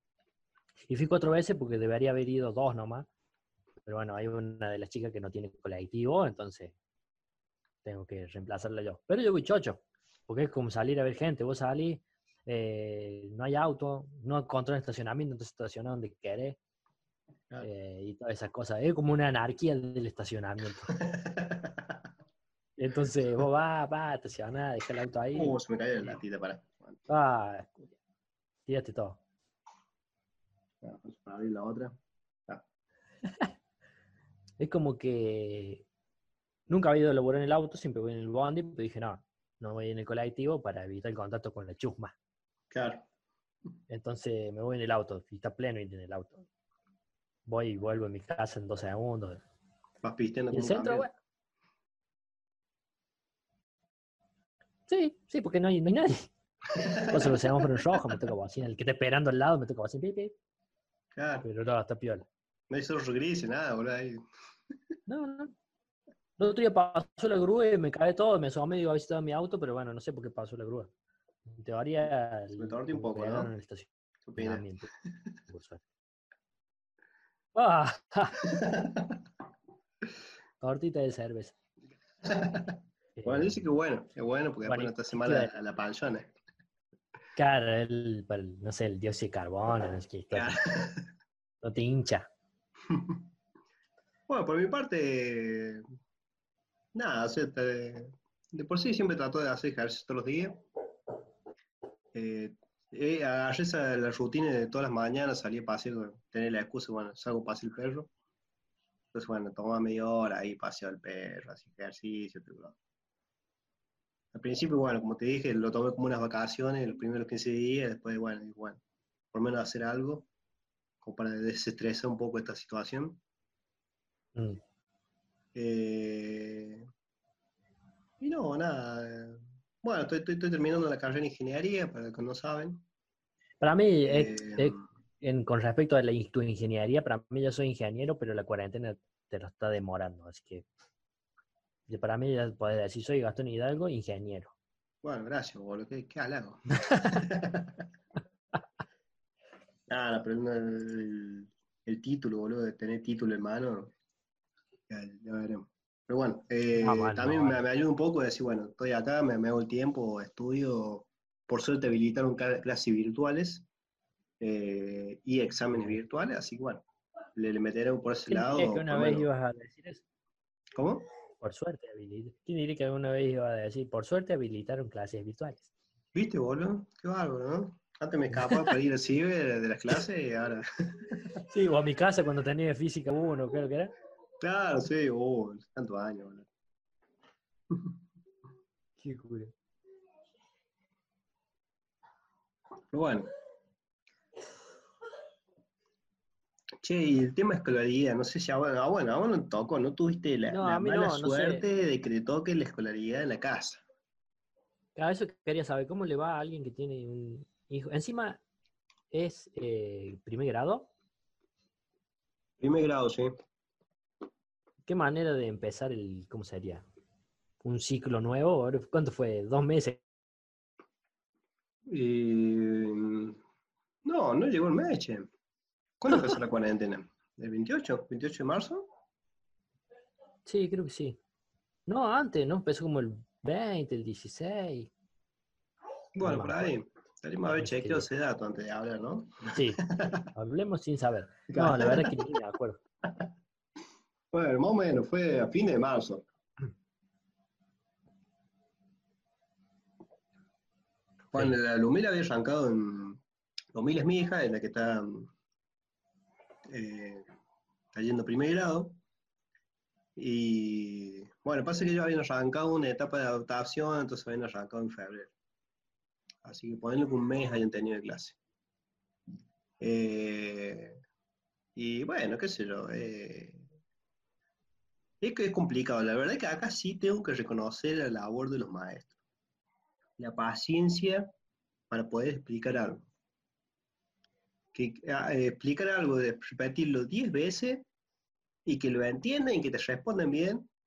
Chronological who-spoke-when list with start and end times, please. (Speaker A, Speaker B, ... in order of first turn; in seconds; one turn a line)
Speaker A: 0.8-3.1
Speaker A: 3.9-6.7
Speaker A: 7.8-16.6
Speaker A: 17.6-20.9
Speaker B: 20.9-21.9
Speaker A: 22.8-26.2
Speaker B: 25.3-27.1
Speaker A: 27.1-27.9
Speaker A: 28.6-29.2
Speaker B: 30.8-31.9
Speaker A: 34.6-35.8
Speaker A: 36.7-42.1
Speaker B: 42.7-43.0
Speaker A: 43.9-46.5
Speaker A: 47.4-49.4
Speaker B: 50.0-51.1
Speaker A: 50.5-51.1
Speaker A: 54.9-56.3
Speaker B: 56.8-57.6
Speaker A: 57.1-60.3
Speaker B: 61.1-61.5
Speaker A: 61.4-62.2
Speaker B: 62.7-64.2
Speaker A: 65.1-65.5
Speaker A: 66.4-70.9
Speaker A: 71.5-74.9
Speaker B: 72.5-73.5
Speaker B: 74.3-74.7
Speaker A: 75.5-75.8
Speaker A: 77.5-78.4
Speaker B: 78.5-79.1
Speaker A: 80.6-81.5
Speaker B: 82.2-86.3
Speaker A: 83.2-83.6
Speaker A: 84.6-85.5
Speaker A: 87.3-90.6
Speaker B: 90.3-91.1
Speaker A: 91.6-92.3
Speaker B: 92.9-93.2
Speaker B: 94.3-95.8
Speaker B: 96.9-100.7
Speaker B: 102.1-108.1
Speaker B: 109.1-112.8
Speaker B: 114.3-118.8
Speaker B: 119.3-120.3
Speaker B: 121.0-123.2
Speaker B: 125.5-126.8
Speaker B: 128.2-132.8
Speaker A: 133.6-140.7
Speaker B: 134.1-134.9
Speaker A: 141.9-144.5
Speaker B: 145.0-147.8
Speaker B: 149.9-153.9
Speaker B: 154.9-163.7
Speaker A: 156.7-157.6
Speaker B: 164.4-166.8
Speaker A: 165.7-166.0
Speaker B: 167.3-169.3
Speaker A: 168.3-170.0
Speaker B: 170.8-171.0
Speaker A: 171.4-175.7
Speaker B: 176.1-181.2
Speaker A: 181.5-183.9
Speaker B: 184.4-186.5
Speaker A: 189.0-189.5
Speaker B: 192.9-193.3
Speaker B: 196.8-203.8
Speaker A: 200.5-201.7
Speaker A: 204.9-208.4
Speaker A: 209.1-210.9
Speaker B: 212.6-213.3
Speaker A: 214.8-216.8
Speaker A: 217.6-220.0
Speaker B: 221.9-223.4
Speaker B: 224.0-225.3
Speaker B: 226.0-228.9
Speaker A: 230.4-231.2
Speaker A: 231.9-234.9
Speaker B: 236.2-240.2
Speaker A: 236.2-236.7
Speaker A: 237.4-238.1
Speaker A: 239.5-239.8
Speaker A: 240.3-242.8
Speaker B: 241.5-242.1
Speaker B: 244.3-246.2
Speaker B: 251.3-253.2
Speaker B: 253.7-255.3
Speaker B: 256.7-257.2
Speaker B: 257.9-259.0
Speaker B: 260.1-265.3
Speaker B: 266.4-268.4
Speaker B: 269.8-271.0
Speaker B: 271.8-273.6
Speaker B: 275.2-279.1
Speaker B: 280.2-281.3
Speaker B: 281.9-283.1
Speaker B: 284.7-287.9
Speaker B: 288.6-290.7